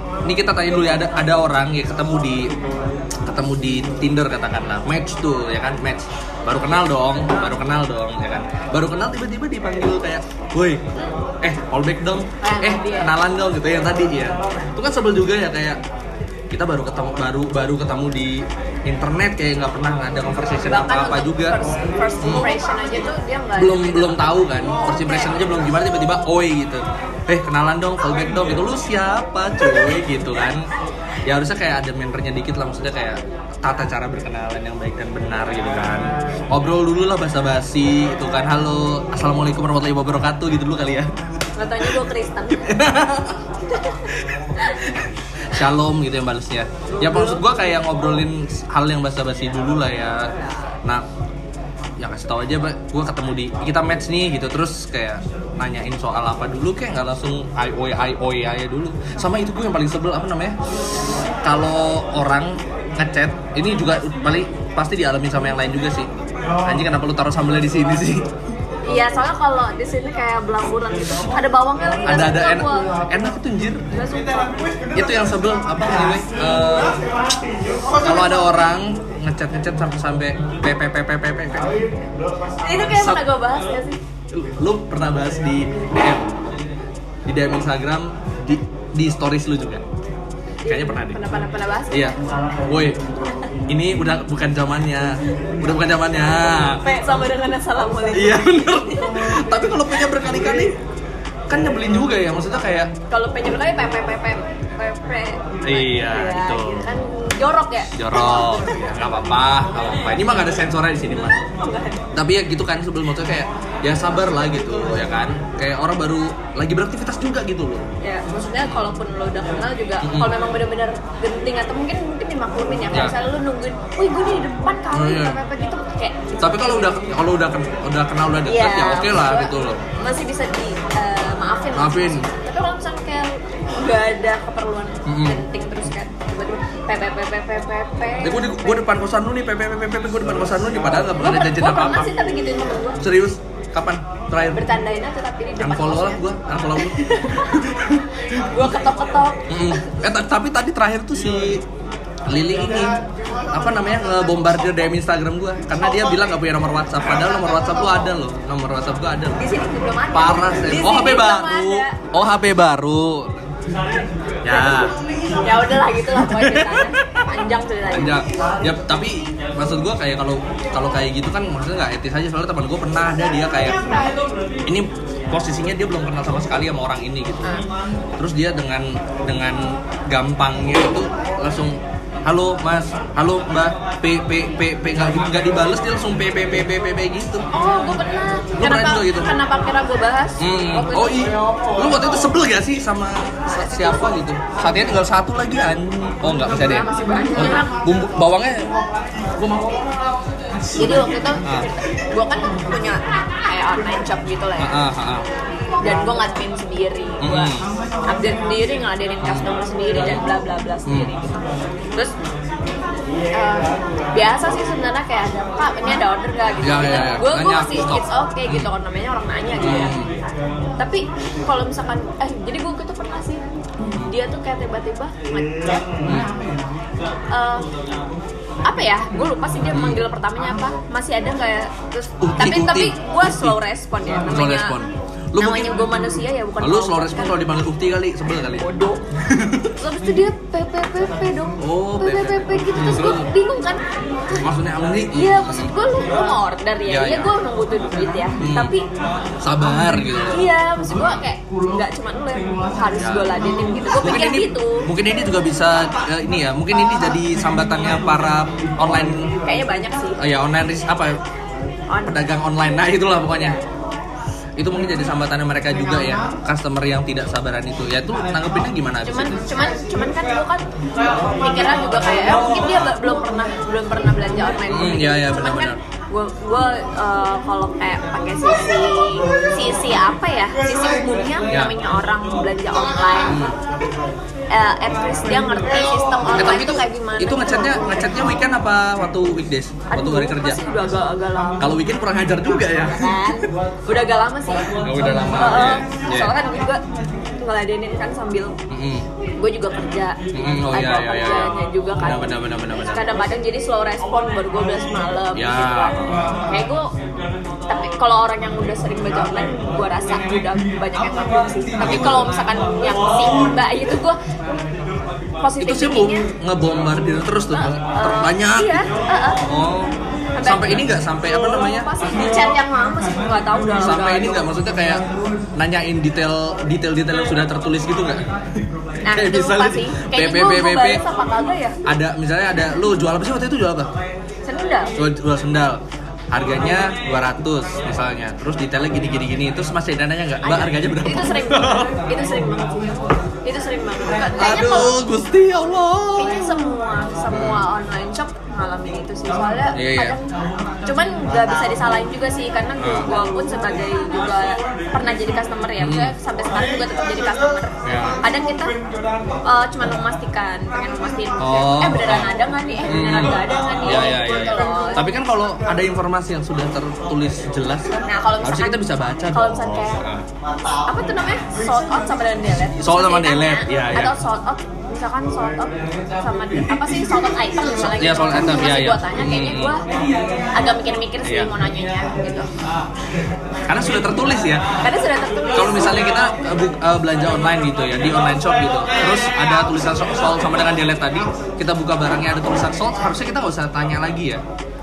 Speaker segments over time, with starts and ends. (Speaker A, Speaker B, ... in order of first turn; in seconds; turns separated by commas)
Speaker A: 0.2-2.5, Speaker A: 3.3-10.8, Speaker A: 11.4-15.8, Speaker B: 12.4-13.1, Speaker A: 16.5-21.6, Speaker B: 20.7-25.4, Speaker A: 22.2-22.5, Speaker A: 23.6-30.7, Speaker A: 31.2-41.1, Speaker B: 41.6-42.9, Speaker A: 42.5-43.5, Speaker B: 43.7-45.0, Speaker A: 45.5-50.3, Speaker B: 46.9-47.6, Speaker B: 50.2-50.8, Speaker A: 52.0-60.5, Speaker A: 61.4-66.1, Speaker A: 66.6-68.2, Speaker B: 68.8-72.9, Speaker A: 72.0-73.9, Speaker B: 73.9-75.0, Speaker A: 74.9-77.0, Speaker A: 78.0-81.7, Speaker B: 82.6-84.0, Speaker A: 82.7-83.2, Speaker A: 84.3-86.3, Speaker A: 87.3-89.8, Speaker B: 90.6-92.2, Speaker A: 90.7-91.2, Speaker A: 91.9-93.0, Speaker A: 93.7-96.8, Speaker B: 96.8-99.4, Speaker A: 98.1-100.7, Speaker A: 101.5-102.9, Speaker B: 103.1-108.9, Speaker A: 105.6-106.9, Speaker A: 108.0-111.4, Speaker B: 111.1-112.0, Speaker A: 112.1-117.9, Speaker B: 118.0-127.2, Speaker A: 118.6-118.9, Speaker A: 120.0-120.3, Speaker A: 124.9-125.4, Speaker A: 126.4-129.8, Speaker B: 128.5-138.8, Speaker A: 131.7-132.3, Speaker A: 135.1-135.4, Speaker A: 138.2-142.2, Speaker B: 141.2-143.0, Speaker A: 143.0-144.7, Speaker B: 144.5-146.2, Speaker A: 145.6-148.1, Speaker B: 146.8-147.7, Speaker B: 148.4-150.0, Speaker A: 149.5-151.6, Speaker A: 152.3-153.0, Speaker A: 153.5-159.5, Speaker B: 159.4-162.0, Speaker A: 160.1-163.4, Speaker A: 164.4-165.0, Speaker B: 164.5-168.2, Speaker A: 166.2-167.0, Speaker A: 167.9-173.8, Speaker B: 173.9-174.2, Speaker A: 174.7-177.6, Speaker A: 178.2-187.4, Speaker B: 187.5-191.3, Speaker A: 188.6-189.3, Speaker A: 190.4-198.7, Speaker B: 193.7-194.0, Speaker B: 196.5-197.8, Speaker A: 199.3-199.9, Speaker B: 200.7-204.8, Speaker A: 200.7-201.7, Speaker A: 204.6-205.3, Speaker B: 205.8-207.5, Speaker A: 207.2-207.7, Speaker B: 208.1-212.1, Speaker A: 209.2-210.2, Speaker A: 210.9-211.1, Speaker B: 213.3-220.0, Speaker A: 216.6-218.7, Speaker A: 219.6-220.1, Speaker B: 220.8-225.9, Speaker A: 223.9-224.1, Speaker A: 226.1-226.4, Speaker B: 227.3-227.7, Speaker B: 228.7-234.8, Speaker A: 229.7-230.0, Speaker A: 232.2-233.6, Speaker A: 234.3-235.8, Speaker B: 235.4-237.4, Speaker A: 236.6-238.7, Speaker B: 238.6-239.1, Speaker A: 239.3-239.8, Speaker B: 239.8-244.4, Speaker A: 241.6-243.3, Speaker A: 244.4-245.7, Speaker B: 245.1-248.9, Speaker A: 246.9-247.3, Speaker A: 248.4-248.8, Speaker A: 249.4-251.2, Speaker B: 250.3-254.9, Speaker A: 253.0-253.3, Speaker A: 254.0-259.3, Speaker B: 259.4-260.2, Speaker A: 260.2-261.2, Speaker B: 261.9-262.3, Speaker A: 262.1-263.6, Speaker B: 263.3-263.6, Speaker A: 264.6-269.5, Speaker B: 269.1-283.5, Speaker A: 274.7-275.8, Speaker A: 281.5-281.8, Speaker A: 283.3-283.6, Speaker B: 284.5-288.1, Speaker A: 286.4-290.6, Speaker B: 289.9-291.7, Speaker A: 291.6-293.4, Speaker B: 292.8-296.8, Speaker A: 294.8-296.3, Speaker B: 297.4-298.5, Speaker A: 298.7-299.1, Speaker B: 299.4-300.2, Speaker A: 300.3-303.2, Speaker B: 300.7-306.9, Speaker A: 305.3-306.2, Speaker B: 307.7-314.2, Speaker A: 311.8-312.4, Speaker B: 315.4-316.3, Speaker A: 315.6-318.9, Speaker B: 317.5-319.4, Speaker A: 319.4-321.9, Speaker B: 320.4-324.5, Speaker A: 323.8-325.0, Speaker A: 325.6-328.3, Speaker B: 329.0-331.8, Speaker A: 329.1-331.0, Speaker A: 331.9-333.9, Speaker B: 334.5-335.0, Speaker A: 335.0-335.8, Speaker A: 336.3-341.9, Speaker B: 340.4-345.0, Speaker A: 344.4-346.7, Speaker B: 346.2-358.8, Speaker A: 347.3-347.6, Speaker A: 349.7-350.2, Speaker A: 352.8-353.1, Speaker A: 355.8-356.1, Speaker A: 357.9-358.2, Speaker B: 359.4-365.1, Speaker A: 361.4-370.3, Speaker B: 368.0-368.8, Speaker B: 369.3-370.0, Speaker B: 370.9-379.9, Speaker A: 372.8-374.2, Speaker A: 377.9-379.8, Speaker B: 380.5-382.5, Speaker A: 381.2-381.5, Speaker A: 383.7-384.6, Speaker B: 384.8-386.2, Speaker A: 385.5-394.4